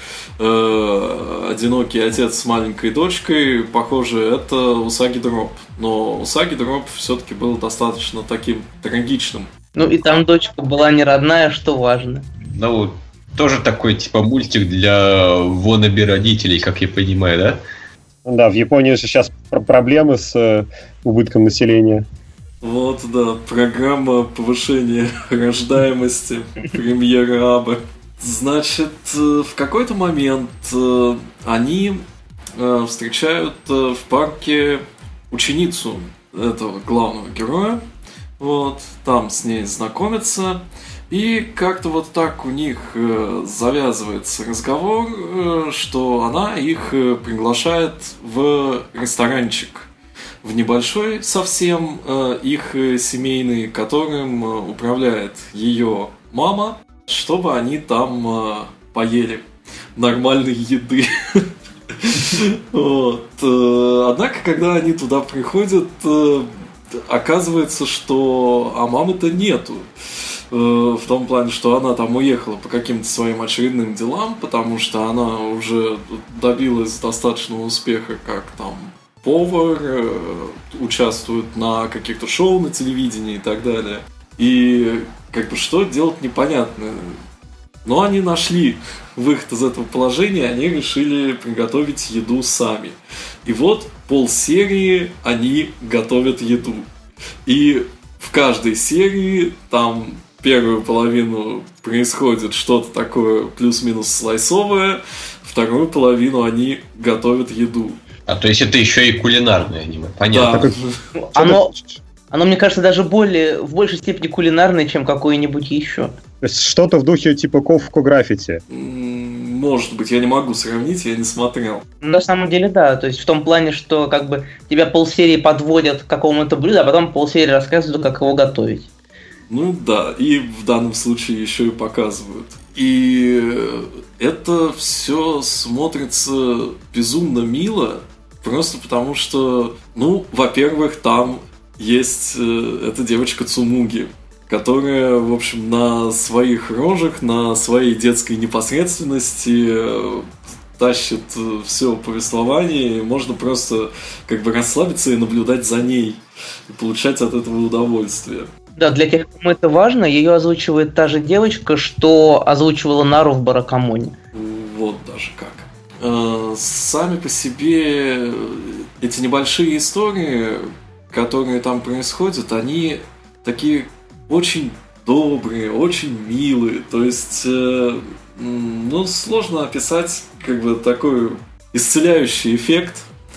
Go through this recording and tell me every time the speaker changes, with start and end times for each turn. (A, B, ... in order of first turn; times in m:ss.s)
0:00.4-0:09.5 A
0:09.8-0:12.3 B
0:12.5-0:17.6 C
0:18.2-0:22.0 D
0:22.6-0:32.0 A
0:32.6-0:37.8 A
0:38.4-0:49.9 A
0:50.4-0:59.4 A
1:00.0-1:09.9 A
1:10.5-1:27.2 A
1:27.8-1:36.8 A
1:37.4-1:48.0 A
1:48.3-1:50.7 C
1:50.3-1:51.0 A
1:51.2-1:51.7 B
1:51.4-1:52.0 D
1:52.3-1:56.1 B
1:56.4-1:58.6 D
1:58.7-2:01.9 A
2:02.0-2:08.9 B
2:09.5-2:38.5 A
2:38.8-2:44.1 B
2:44.3-3:03.1 A